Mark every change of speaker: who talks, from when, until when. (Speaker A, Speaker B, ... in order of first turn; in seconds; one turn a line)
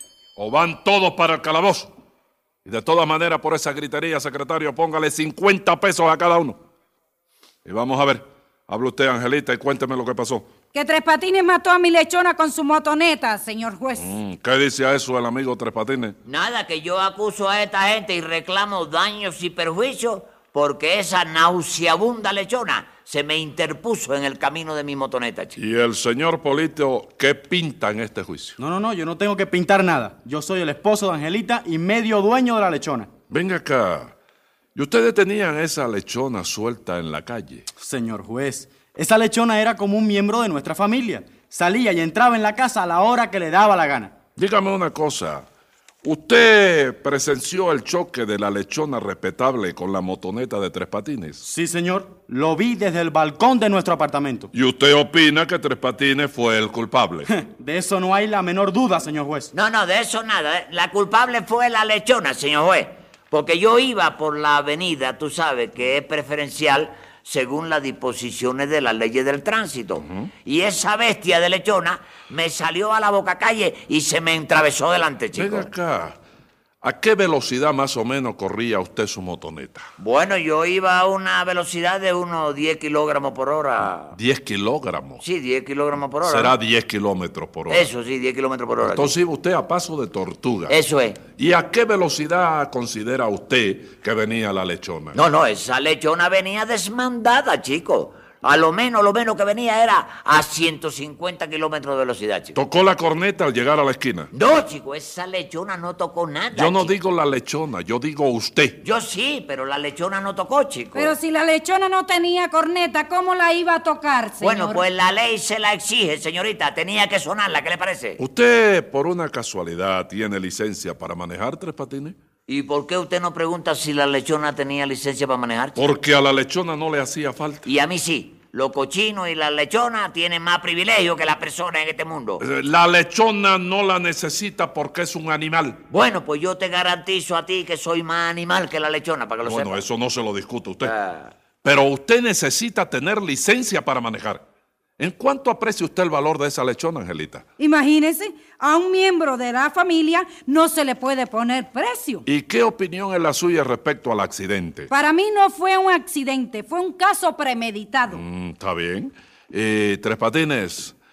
Speaker A: 0.4-1.9
Speaker A: 2.6-6.6
Speaker A: 7.6-10.5
Speaker B: 10.7-14.1
Speaker A: 14.0-16.1
Speaker C: 16.2-25.6
Speaker A: 25.6-28.6
Speaker D: 28.6-33.1
Speaker A: 33.3-34.1
Speaker A: 34.8-37.6
Speaker D: 37.8-44.1
Speaker A: 44.4-45.5
Speaker A: 46.0-51.4
Speaker D: 51.4-54.5
Speaker A: 54.5-57.3
Speaker D: 57.2-59.5
Speaker C: 59.5-75.7
Speaker A: 75.3-76.2
Speaker A: 76.8-79.8
Speaker C: 80.0-84.1
Speaker A: 84.1-85.2
Speaker C: 85.2-86.5
Speaker A: 86.2-87.9
Speaker C: 87.7-89.1
Speaker A: 88.8-90.8
Speaker C: 90.7-91.2
Speaker A: 91.3-95.2
Speaker C: 95.1-102.5
Speaker A: 102.5-104.3
Speaker C: 104.3-107.0
Speaker A: 106.5-108.8
Speaker C: 108.8-111.1
Speaker B: 110.9-114.8
Speaker C: 114.4-118.2
Speaker A: 118.2-122.1
Speaker C: 122.5-125.8
Speaker A: 125.8-127.6
Speaker C: 127.6-132.4
Speaker A: 132.4-135.8
Speaker C: 135.9-139.8
Speaker A: 139.4-140.9
Speaker C: 140.8-141.3
Speaker A: 141.6-144.4
Speaker A: 145.0-147.4
Speaker B: 147.6-152.2
Speaker A: 152.3-154.9
Speaker B: 154.9-158.2
Speaker A: 158.1-160.9